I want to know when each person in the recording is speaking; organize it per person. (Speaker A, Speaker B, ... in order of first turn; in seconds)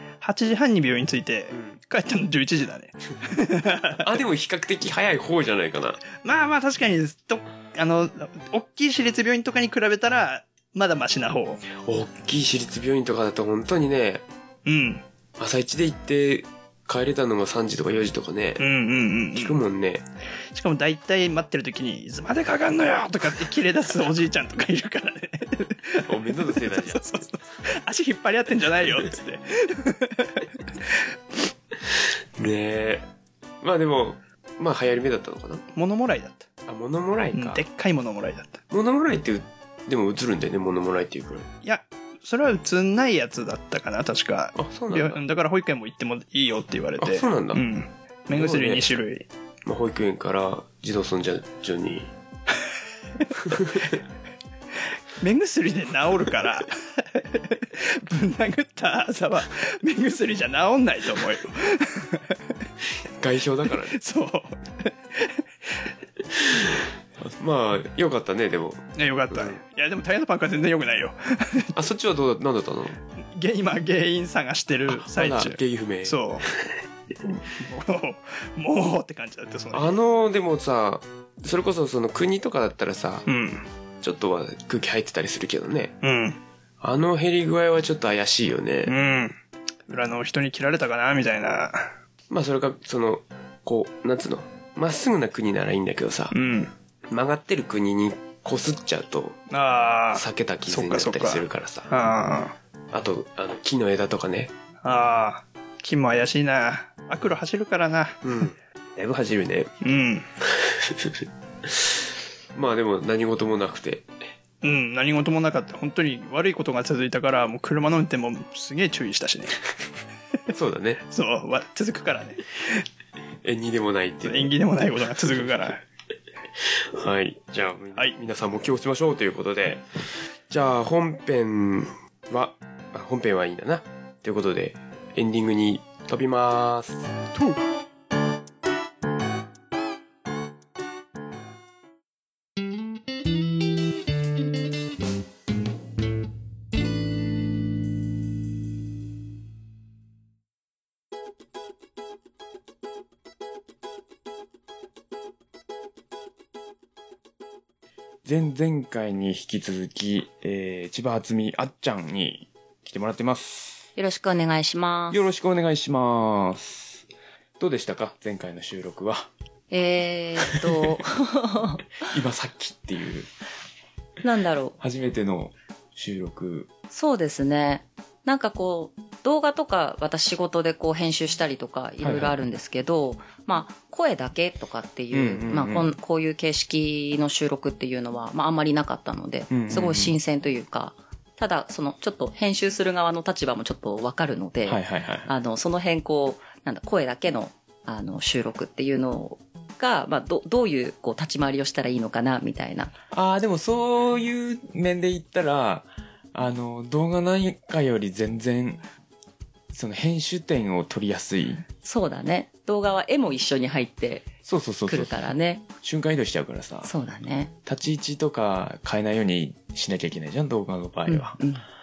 Speaker A: 0.2-4.0, 6.2-11.6, 14.7-15.0, 18.6-19.6, 20.5-30.5, 35.7-36.5, 37.3-38.6, 41.6-49.2, 55.2-62.4, 63.7-65.4, 69.0-71.7, 73.3-76.5, 77.3-79.9, 83.3-83.7, 86.0-86.4, 88.8-89.3, 89.9-91.9, 96.3-96.7, 99.5-102.5, 104.8-108.2, 109.8-110.2, 114.6-119.5, 121.0-122.6, 124.2-125.8
Speaker B: 4.0-6.0, 11.7-14.2, 15.4-18.6, 19.3-20.0, 26.0-27.2, 32.4-33.0, 33.6-35.6, 36.6-37.6, 38.7-41.5, 44.6-45.2, 47.0-47.6, 48.3-48.9, 49.6-52.1, 53.5-54.0, 63.2-64.0, 67.2-69.6, 71.7-73.0, 74.9-76.6, 79.7-83.2, 84.0-86.0, 86.8-88.9, 92.3-96.3, 97.1-99.4, 100.1-101.9, 102.9-104.5, 108.2-109.7, 110.8-111.2, 112.5-114.1, 120.5-121.0, 123.4-124.5, 125.2-125.7, 126.9-129.8, 130.5-137.1
Speaker C: 158.2-163.9, 165.1-167.0, 167.6-169.3, 170.7-171.0, 172.0-173.3, 174.8-176.7, 182.0-182.3, 185.1-185.9, 189.5-190.1, 194.6-195.3, 203.1-208.8, 209.7-211.7, 214.4-216.9, 217.7-221.4
Speaker D: 163.9-165.2, 169.7-171.9, 174.2-174.8, 176.9-202.9, 211.8-214.3, 214.9-215.6, 216.8-217.5, 221.1-221.6